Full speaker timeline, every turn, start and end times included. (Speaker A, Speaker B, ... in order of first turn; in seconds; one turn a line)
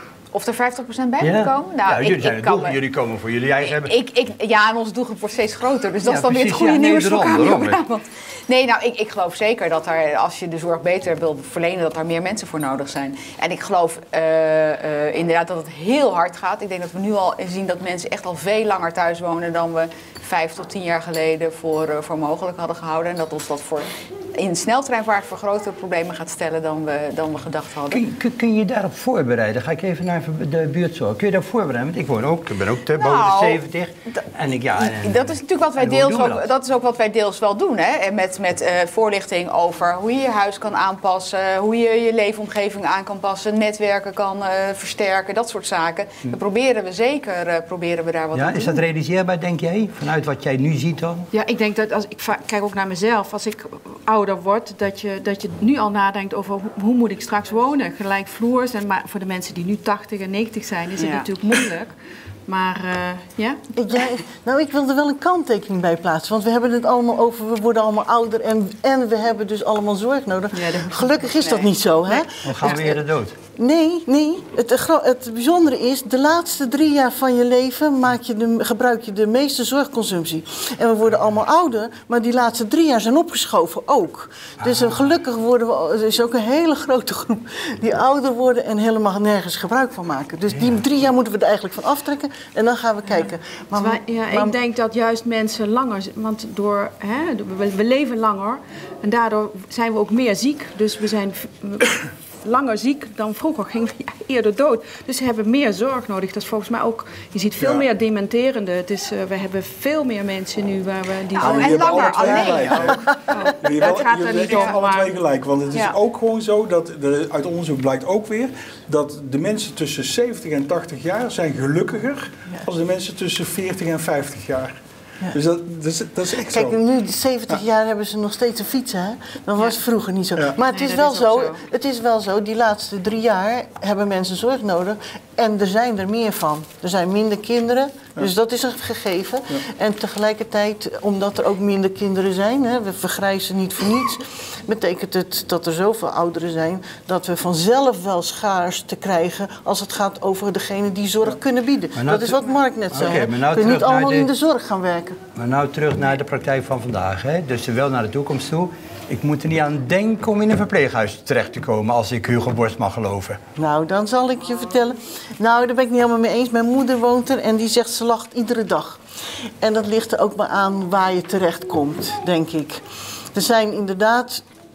Speaker A: 0.3-2.8
Speaker B: 1.2-3.9
Speaker A: 3.6-28.0
Speaker B: 6.0-7.8
Speaker B: 27.9-36.5
Speaker A: 32.9-33.6
Speaker A: 34.8-48.8
Speaker B: 48.3-51.3
Speaker C: 51.3-63.6
Speaker A: 61.0-61.3
Speaker D: 63.7-73.0
Speaker C: 70.5-71.1
Speaker B: 72.4-73.3
Speaker D: 73.5-94.5
Speaker C: 93.7-115.1
Speaker E: 107.6-107.8
Speaker A: 111.3-113.0
Speaker E: 111.3-124.7
Speaker A: 113.8-114.7
Speaker E: 125.3-126.8
Speaker D: 126.4-155.2
Speaker A: 130.8-131.3
Speaker B: 151.9-154.3
Speaker B: 155.3-163.4
Speaker D: 163.6-169.0
Speaker D: 169.6-174.4